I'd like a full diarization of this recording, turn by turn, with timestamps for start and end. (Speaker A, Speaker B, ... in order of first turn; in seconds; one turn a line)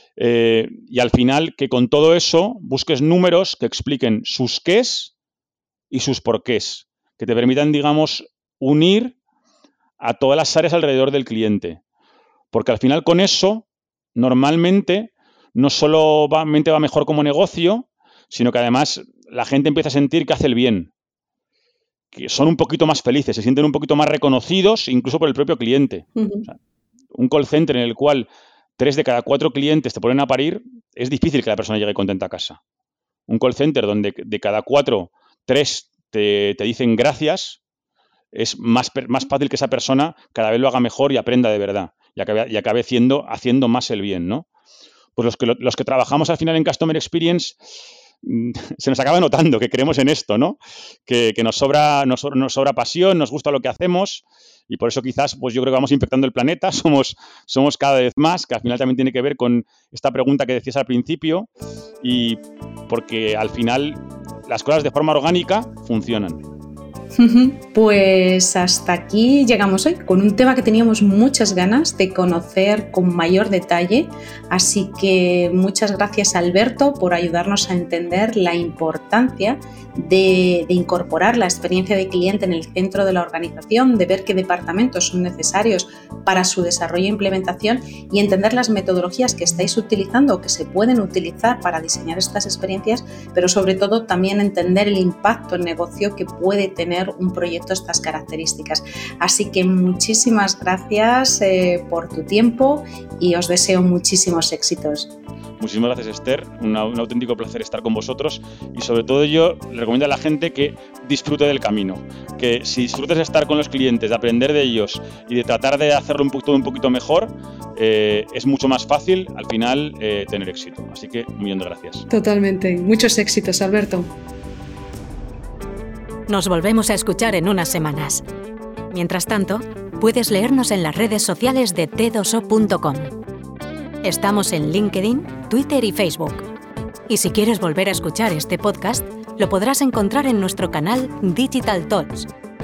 Speaker A: 0.2-5.1
Speaker A: 5.9-9.2
Speaker A: 10.0-11.8
Speaker A: 12.5-20.9
Speaker A: 22.1-26.6
Speaker B: 26.2-26.5
Speaker A: 27.1-32.6
Speaker A: 33.3-37.6
Speaker A: 38.3-44.5
Speaker A: 45.2-61.5
Speaker A: 62.0-66.4
Speaker B: 67.2-105.1
Speaker A: 105.6-122.1
Speaker B: 122.1-124.1
Speaker C: 126.3-128.2
Speaker C: 128.9-133.2
Speaker C: 134.0-136.5
Speaker C: 137.1-142.3